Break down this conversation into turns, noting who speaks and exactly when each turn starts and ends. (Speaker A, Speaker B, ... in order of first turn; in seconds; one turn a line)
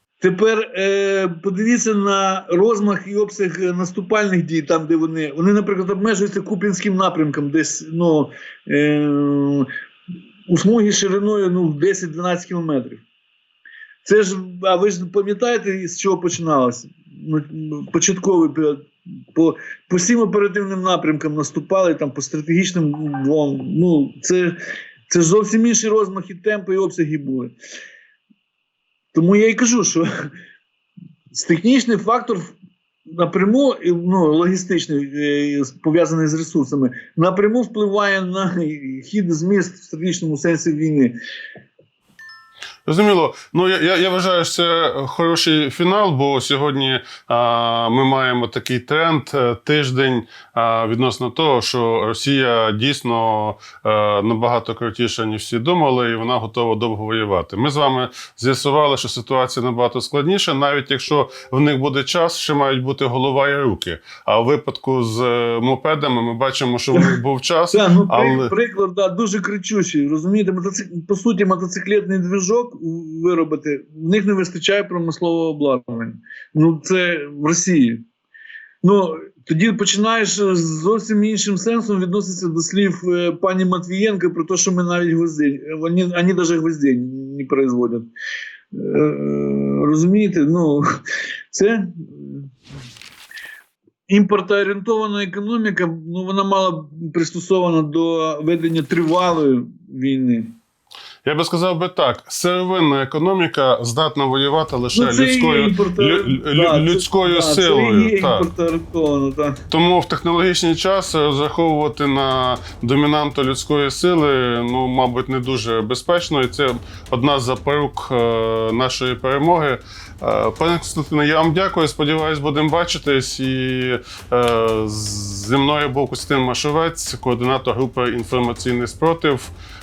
Speaker A: 0.2-9.7
Speaker A: 10.5-13.0
Speaker A: 14.0-24.5
Speaker A: 25.1-27.5
Speaker A: 29.1-30.1
Speaker A: 31.3-32.5
Speaker A: 33.1-41.1
Speaker B: 42.9-68.5
Speaker A: 67.7-78.0
Speaker A: 78.8-88.0
Speaker A: 88.7-90.8
Speaker A: 91.5-92.5
Speaker A: 94.1-100.5
Speaker B: 101.2-108.5
Speaker A: 104.9-109.6
Speaker B: 109.7-129.5